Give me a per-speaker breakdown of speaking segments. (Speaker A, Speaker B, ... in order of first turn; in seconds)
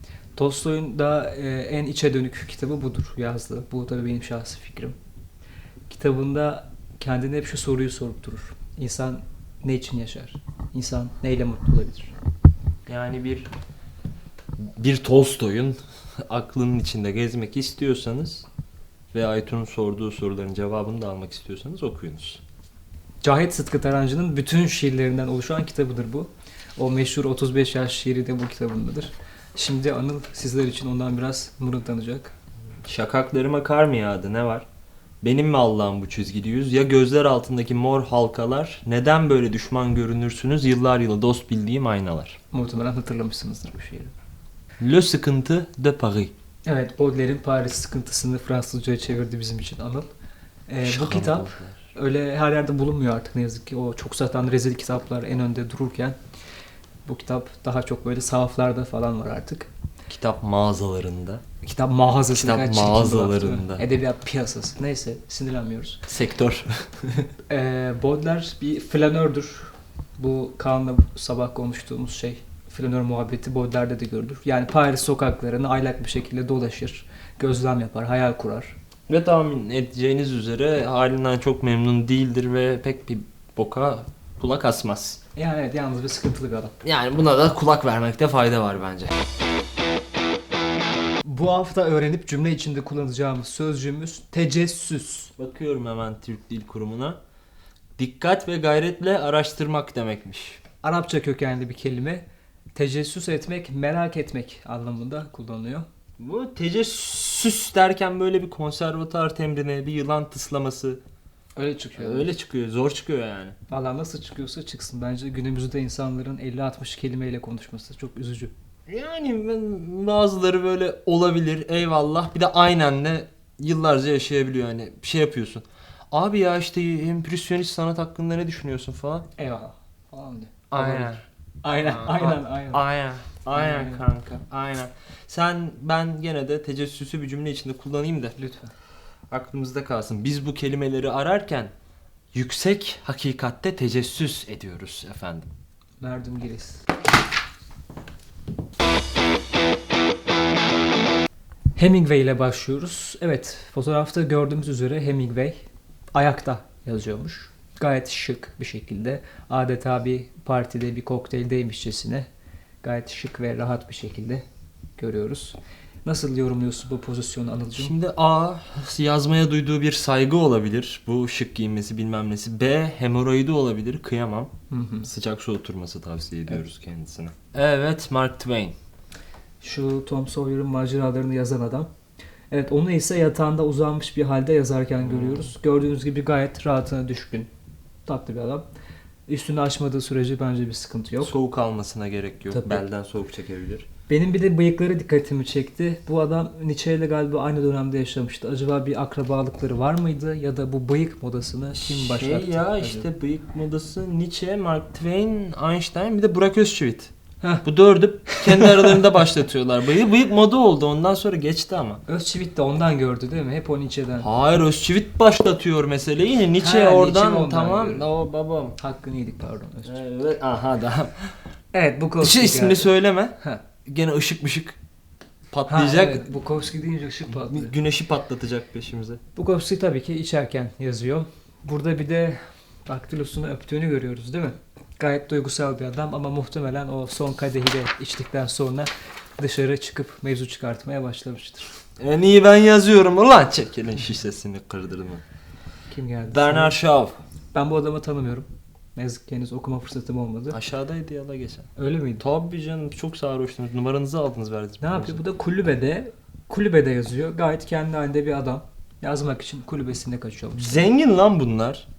Speaker A: 0.4-5.0, 5.9-12.1, 23.2-32.3, 42.5-44.1, 46.7-50.1, 50.7-56.2, 57.1-59.7, 61.6-66.0, 67.5-78.8, 85.3-86.8, 91.2-95.3, 100.8-105.9, 111.6-112.3, 113.7-118.5, 129.4-132.8, 133.5-134.0, 138.4-138.7, 146.0-146.9, 151.8-162.3, 162.8-164.4, 165.0-167.9, 174.7-175.1, 179.6-181.9, 182.5-187.5, 188.1-188.7, 189.3-191.3, 192.5-192.8, 194.1-203.1, 208.3-208.9, 212.1-214.3, 216.6-218.1, 218.8-220.0, 221.7-223.6, 225.7-227.7, 229.4-241.8, 245.9-246.8, 247.5-250.6, 251.8-252.2, 254.8-260.8
Speaker B: 12.9-13.5, 14.6-18.5, 19.1-22.4, 32.8-34.7, 35.2-42.4, 44.8-46.3, 50.8-51.8, 60.1-61.4, 62.3-63.9, 66.1-67.3, 79.1-85.2, 86.8-89.2, 95.4-97.2, 98.0-100.6, 106.2-111.0, 112.0-113.6, 118.9-129.3, 130.7-138.4, 139.3-141.7, 142.3-145.5, 167.8-174.5, 175.0-178.8, 185.0-185.5, 191.2-193.9, 201.8-207.1, 207.6-212.0, 214.2-218.8, 219.9-221.3, 222.2-224.8, 225.5-226.3, 227.3-229.2, 242.0-245.2, 246.3-247.2, 250.5-255.2, 260.6-261.9